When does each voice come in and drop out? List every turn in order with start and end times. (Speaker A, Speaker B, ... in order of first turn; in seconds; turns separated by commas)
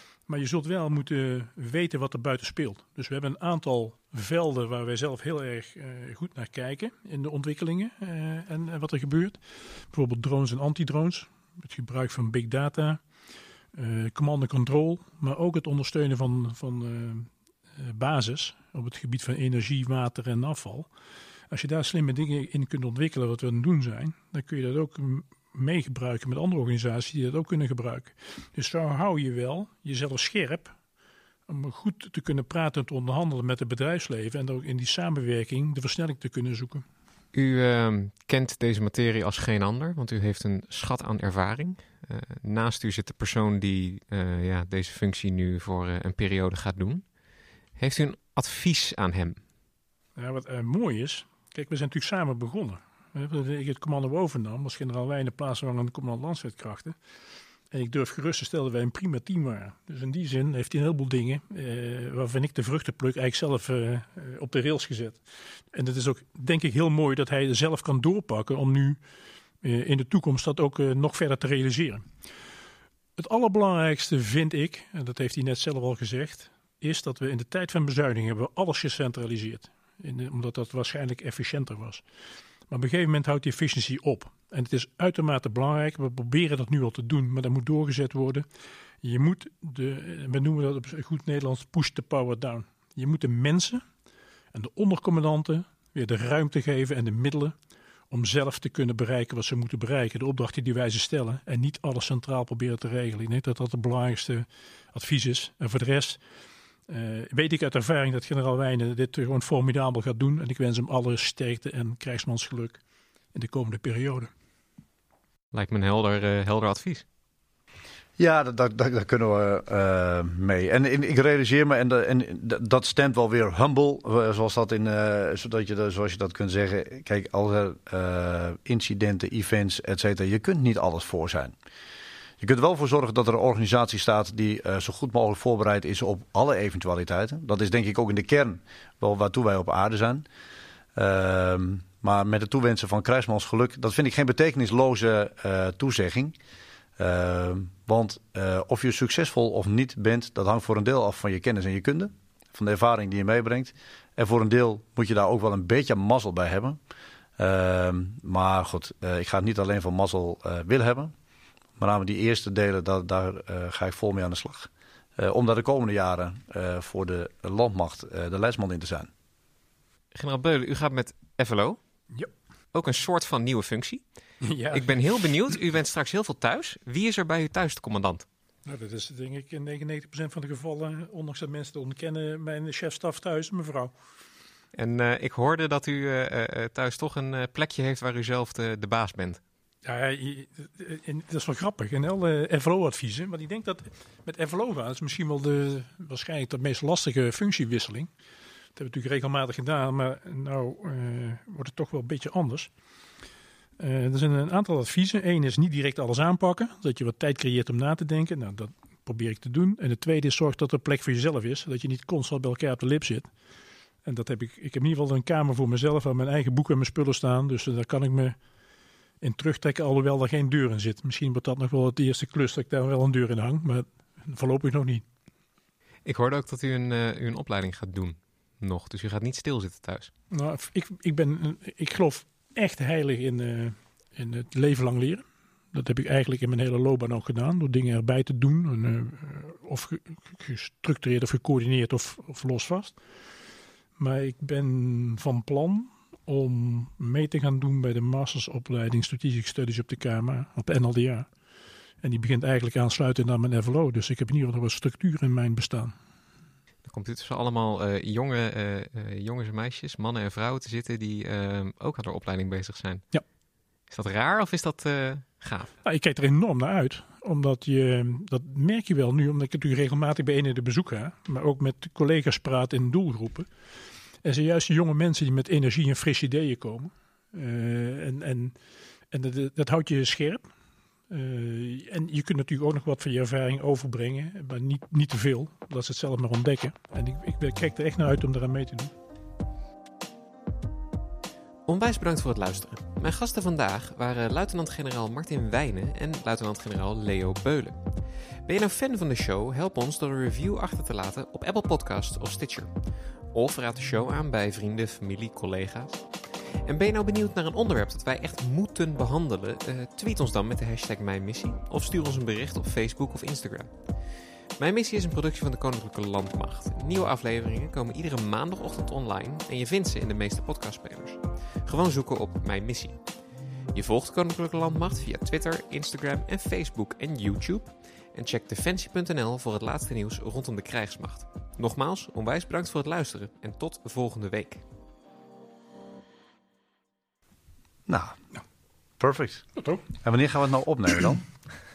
Speaker A: 0.3-9.4, Speaker A: 9.9-13.0, Speaker A: 13.7-20.9, Speaker A: 21.5-30.7, Speaker A: 31.5-36.9, Speaker B: 37.3-47.1, Speaker B: 47.8-49.4, Speaker A: 50.2-57.0, Speaker A: 57.7-65.2, Speaker A: 65.7-69.0, Speaker A: 69.6-72.0, Speaker A: 73.2-82.0, Speaker A: 82.7-88.5, Speaker A: 89.0-93.8, Speaker A: 94.5-97.5, Speaker A: 98.1-106.2, Speaker A: 106.9-112.8, Speaker A: 113.3-114.3, Speaker B: 115.5-117.0, Speaker C: 118.2-131.6, Speaker C: 132.4-140.2, Speaker C: 140.9-146.3, Speaker C: 147.0-156.8, Speaker C: 157.4-161.1, Speaker C: 161.8-169.1, Speaker B: 170.1-171.8, Speaker B: 172.7-174.0, Speaker A: 174.4-175.3, Speaker B: 174.7-178.3, Speaker A: 178.7-183.9, Speaker B: 184.8-189.4, Speaker A: 189.8-198.1, Speaker A: 198.8-202.7, Speaker A: 203.8-213.3, Speaker A: 214.1-218.4, Speaker A: 219.2-225.0, Speaker B: 226.1-230.1, Speaker A: 230.3-243.0, Speaker A: 244.0-251.3, Speaker A: 252.0-255.9, Speaker B: 256.8-263.1, Speaker B: 263.9-265.7, Speaker A: 265.8-273.5, Speaker A: 274.2-278.6, Speaker A: 279.1-280.4, Speaker A: 281.1-288.9, Speaker B: 291.7-297.9, Speaker B: 298.4-302.7, Speaker B: 303.3-306.1, Speaker B: 306.6-313.8, Speaker B: 314.6-323.0, Speaker B: 323.7-334.6, Speaker C: 337.9-338.2, Speaker C: 339.0-339.5, Speaker A: 339.6-339.8, Speaker C: 340.0-341.2